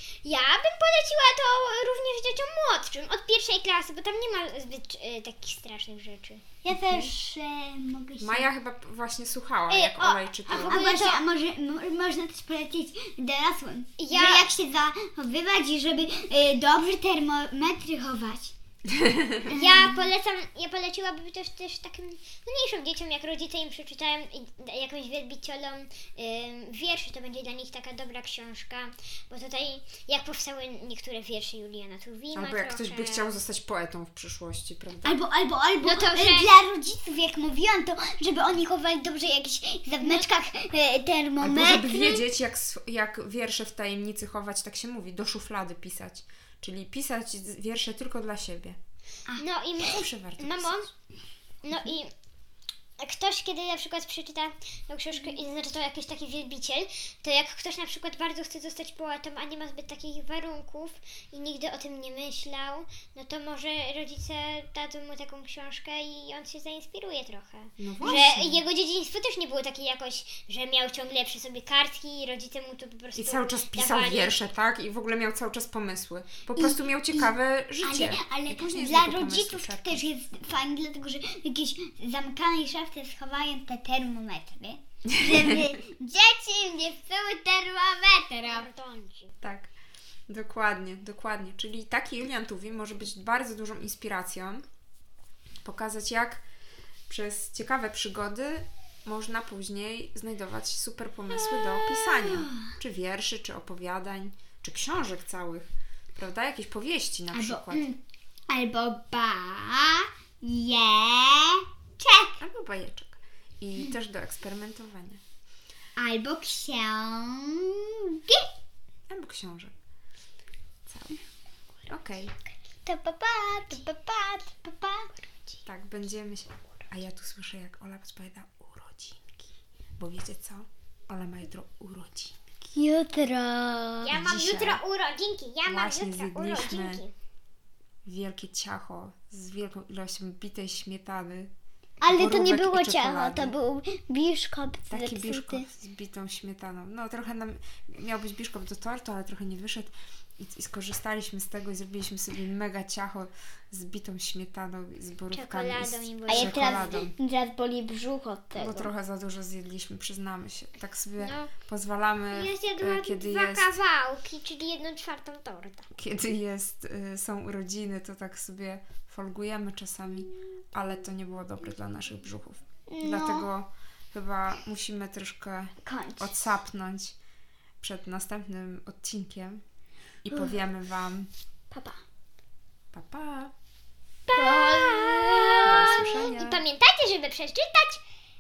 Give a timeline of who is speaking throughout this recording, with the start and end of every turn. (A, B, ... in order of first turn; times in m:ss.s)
0:00.2-0:06.4 A
0:06.6-0:08.5 B
0:06.7-0:07.2 C
0:08.2-0:10.9 C
0:09.7-0:11.2 A
0:10.6-0:18.5 B
0:14.0-0:14.5 A
0:19.0-0:19.3 C
0:19.5-0:33.4 A
0:19.5-0:20.0 B
0:32.4-0:35.2 C
0:35.0-0:42.2 B
0:35.8-0:36.6 A
0:40.0-0:40.5 A
0:41.4-0:48.8 C
0:49.3-0:50.9 A
0:49.8-0:50.9 C
0:51.6-0:52.1 A
0:53.0-1:14.4 A
1:07.8-1:08.6 C
1:13.2-1:20.0 C
1:16.6-1:28.7 B
1:28.4-1:29.3 A
1:29.4-1:29.7 C
1:30.3-1:34.7 C
1:35.6-1:36.4 C
1:37.1-1:47.9 C
1:41.4-1:42.7 B
1:47.3-1:48.0 B
1:48.5-1:52.4 B
1:52.4-1:55.2 C
1:56.0-1:58.5 B
1:59.1-1:59.7 C
2:00.9-2:01.2 C
2:01.9-2:02.4 C
2:02.9-2:05.1 B
2:05.1-2:05.6 A
2:05.6-2:12.4 C
2:12.7-2:14.2 B
2:14.0-2:17.1 A
2:14.1-2:14.8 C
2:15.7-2:17.0 C
2:18.0-2:21.5 C
2:22.0-2:25.7 B
2:22.1-2:23.6 C
2:24.9-2:37.1 C
2:35.3-2:36.9 A
2:36.3-2:38.9 B
2:38.5-2:43.7 C
2:41.2-2:41.5 A
2:42.3-2:45.9 A
2:46.0-2:57.2 C
2:52.9-2:53.5 B
2:55.8-2:56.3 B
2:57.8-2:59.6 C
3:00.2-3:01.3 C
3:00.3-3:00.6 B
3:01.7-3:02.0 B
3:02.9-3:03.5 C
3:04.3-3:08.0 A
3:04.3-3:05.6 B
3:05.6-3:06.6 C